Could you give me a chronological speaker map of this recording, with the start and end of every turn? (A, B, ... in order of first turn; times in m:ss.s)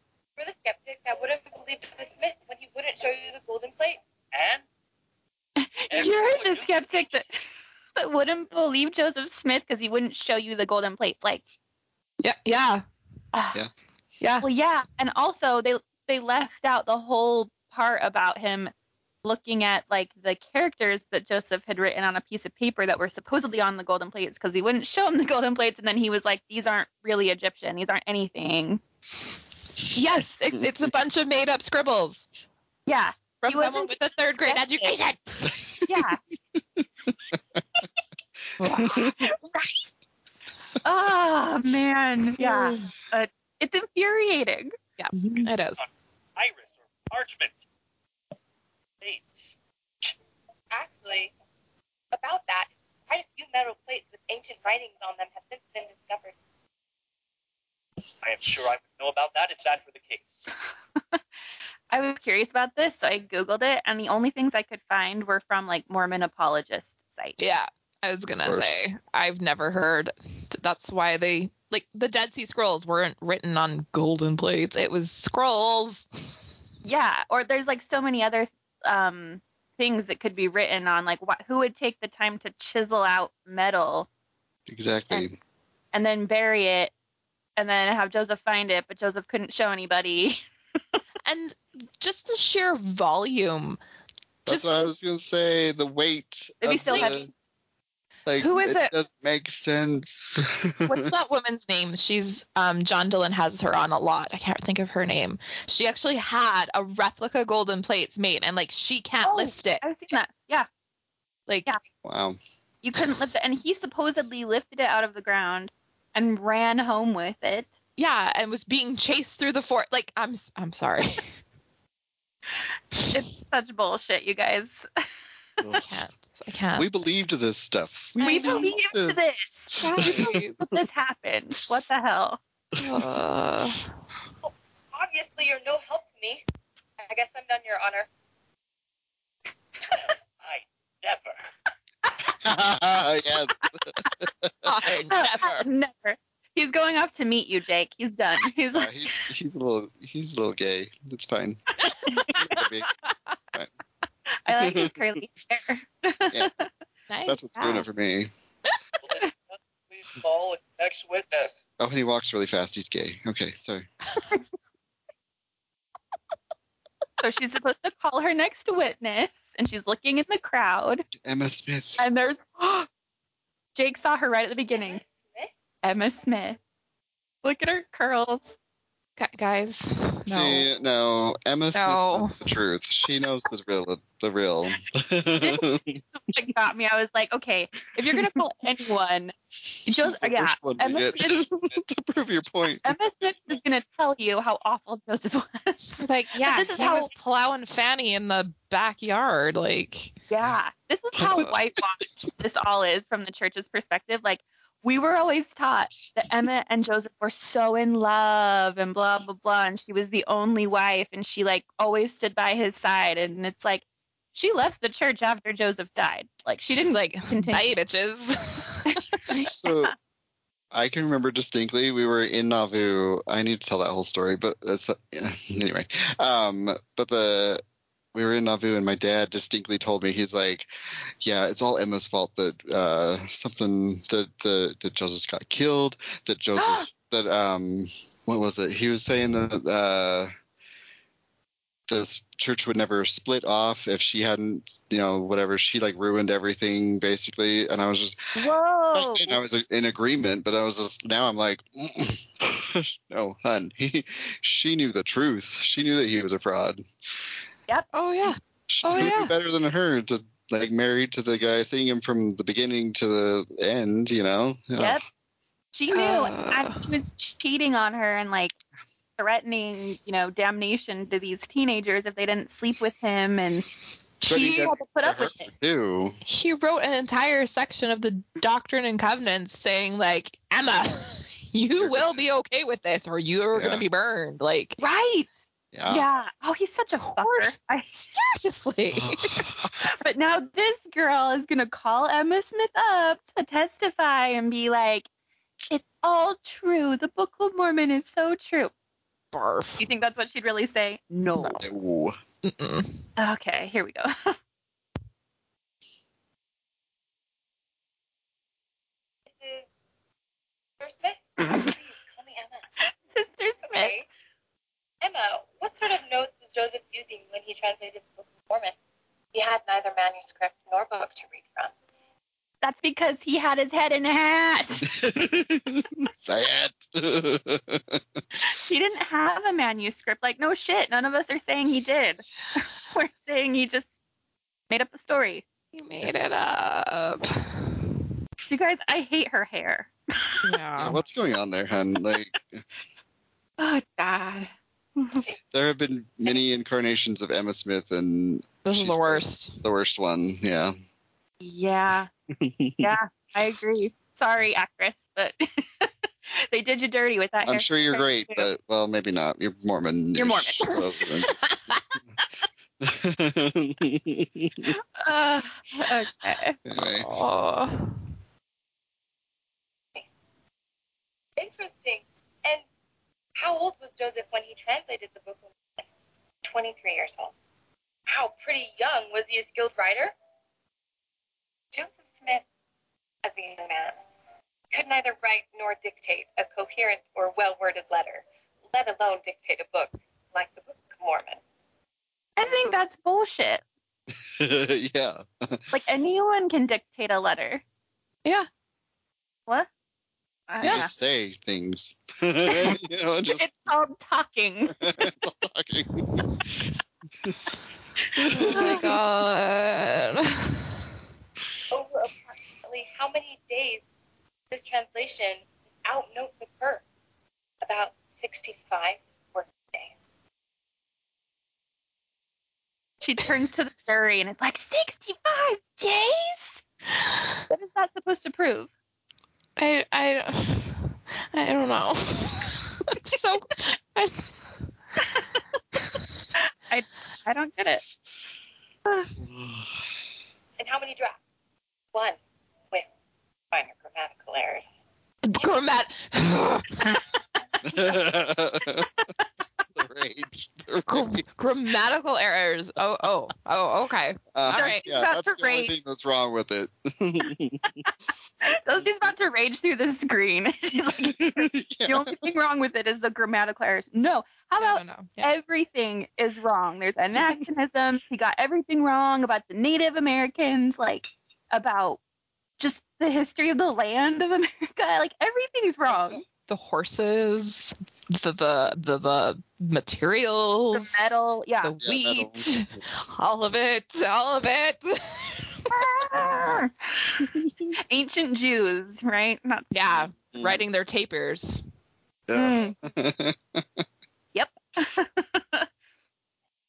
0:00.4-0:04.0 A
0:04.3-0:04.6 B
0:05.6-0:07.3 C
0:05.9-0:07.2 B
0:08.0-0:11.4 C
0:12.2-0:12.8 D
0:13.3-0:13.6 C
0:14.2-0:14.5 D
0:14.4-0:18.7 C
0:19.2-0:28.8 C
0:29.9-0:32.3 D
0:32.9-0:35.0 C
0:33.4-0:35.7 D
0:35.5-0:35.9 E
0:35.8-0:36.2 C
0:36.8-0:37.6 E
0:38.6-0:38.9 D
0:38.7-0:39.8 C
0:38.8-0:39.2 E
0:40.8-0:44.7 C
0:42.4-0:42.7 D
0:45.0-0:45.8 D
0:45.8-0:47.6 B
0:49.0-0:49.6 B
0:50.7-0:51.3 A
0:52.1-0:56.3 A
0:58.2-1:00.5 B
1:01.9-1:07.4 C
1:07.4-1:16.1 D
1:08.4-1:08.8 E
1:16.8-1:24.1 C
1:24.7-1:25.3 E
1:25.9-1:26.9 C
1:27.6-1:30.4 C
1:31.2-1:33.8 D
1:34.5-1:37.3 E
1:34.5-1:34.8 D
1:36.6-1:37.3 C
1:36.9-1:37.2 D
1:38.3-1:41.0 E
1:38.4-1:38.9 D
1:40.9-1:49.8 D
1:49.2-1:50.7 C
1:52.0-1:52.4 E
1:52.8-1:57.7 C
1:58.0-2:01.3 D
2:03.1-2:04.9 C
2:05.6-2:05.8 C
2:05.6-2:05.9 E
2:05.9-2:06.9 D
2:06.8-2:09.2 E
2:08.2-2:08.7 D
2:08.2-2:12.4 C
2:09.7-2:10.6 D
2:10.0-2:10.4 E
2:12.8-2:13.9 D
2:14.9-2:16.4 A
2:17.0-2:18.1 A
2:20.4-2:21.4 B
2:22.4-2:24.7 E
2:24.6-2:25.7 D
2:25.1-2:28.9 C
2:28.7-2:31.6 E
2:32.1-2:32.5 C
2:32.3-2:32.9 E
2:34.4-2:36.7 C
2:34.6-2:35.0 E
2:37.1-2:37.9 D
2:37.3-2:38.3 E
2:39.0-2:41.6 B
2:41.8-2:43.8 E
2:44.2-2:44.4 C
2:47.2-2:51.1 C
2:51.2-2:52.0 E
2:52.0-2:52.9 C
2:53.8-2:55.0 C
2:54.7-2:55.5 A
2:55.8-2:56.6 C
2:57.4-2:58.5 C
2:59.2-3:00.7 D
3:00.3-3:06.0 E
3:01.7-3:02.4 D
3:05.4-3:09.3 C
3:08.0-3:08.4 E
3:09.9-3:11.5 C
3:09.9-3:13.4 E
3:12.8-3:17.1 C
3:16.0-3:20.1 D
3:20.3-3:33.8 C
3:21.2-3:21.5 E
3:34.4-3:37.7 C
3:36.8-3:39.0 D
3:38.9-3:39.9 C
3:39.3-3:40.0 E
3:40.7-3:47.6 E
3:48.1-3:50.7 E
3:51.2-4:00.3 E
3:56.6-3:56.9 C
4:01.9-4:17.2 E
4:08.4-4:09.4 C
4:17.7-4:18.3 C
4:17.9-4:19.3 D
4:18.7-4:25.0 E
4:25.7-4:28.6 C
4:25.9-4:27.0 D
4:29.2-4:33.7 C
4:34.2-4:36.1 E
4:34.2-4:35.5 C
4:36.3-4:44.8 D
4:41.7-4:42.2 E
4:43.5-4:43.8 E
4:44.8-4:45.3 C
4:45.7-4:46.1 E
4:45.9-4:48.0 C
4:47.0-4:49.5 D
4:48.9-4:49.7 E
4:49.8-4:55.1 C
4:55.7-4:58.7 C
4:59.3-4:59.9 D
4:59.8-5:01.6 C
5:01.6-5:02.2 E
5:02.4-5:03.1 D
5:03.2-5:04.4 C
5:09.3-5:09.7 A
5:10.8-5:12.7 A
5:13.1-5:14.0 C
5:13.7-5:14.1 A
5:15.0-5:18.8 A
5:19.3-5:21.7 A
5:22.6-5:24.9 C
5:24.9-5:28.0 E
5:28.4-5:33.9 C
5:34.7-5:35.4 C
5:35.7-5:38.0 D
5:38.5-5:40.4 C
5:40.4-5:41.0 D
5:40.8-5:42.6 E
5:43.6-5:45.2 C
5:45.5-5:50.7 E
5:48.6-5:49.6 D
5:51.4-5:52.1 C
5:52.4-5:52.9 E
5:52.8-5:58.5 C
5:57.5-6:01.6 E
6:00.2-6:00.8 C
6:02.8-6:04.7 E
6:05.0-6:06.6 C
6:06.7-6:07.1 E
6:06.8-6:08.0 D
6:11.4-6:12.6 A
6:13.4-6:15.8 A
6:16.4-6:17.3 A
6:18.1-6:20.1 A
6:21.7-6:22.4 A
6:23.2-6:24.0 A
6:24.7-6:31.4 A
6:32.4-6:33.6 C
6:34.2-6:35.7 E
6:35.7-6:37.6 C
6:40.5-6:40.9 C
6:40.6-6:43.5 E
6:42.5-6:42.8 C
6:43.3-6:44.9 C
6:44.8-6:46.7 E
6:48.2-6:48.8 E
6:48.3-6:50.8 D
6:48.4-6:48.9 C
6:51.7-6:53.8 A
6:54.5-6:56.8 A
6:57.6-6:59.9 A
7:03.0-7:06.6 C
7:07.5-7:08.7 C
7:09.6-7:14.4 D
7:16.7-7:17.8 C
7:19.2-7:19.8 E
7:20.6-7:21.2 A
7:23.5-7:24.7 A
7:25.2-7:27.0 D
7:27.6-7:28.9 E
7:29.8-7:31.2 E
7:30.9-7:34.8 D
7:34.3-7:37.7 E
7:34.5-7:35.7 C
7:38.5-7:52.0 C
7:38.8-7:39.1 E
7:41.3-7:42.2 E
7:44.6-7:45.3 D
7:52.6-7:56.2 C
7:56.4-8:00.9 D
8:00.7-8:01.7 C
8:01.6-8:05.7 D
8:01.8-8:02.5 E
8:05.7-8:07.1 C
8:07.9-8:09.7 C
8:09.7-8:11.6 D
8:09.9-8:10.6 E
8:12.3-8:13.8 E
8:12.4-8:12.8 C
8:14.3-8:15.7 C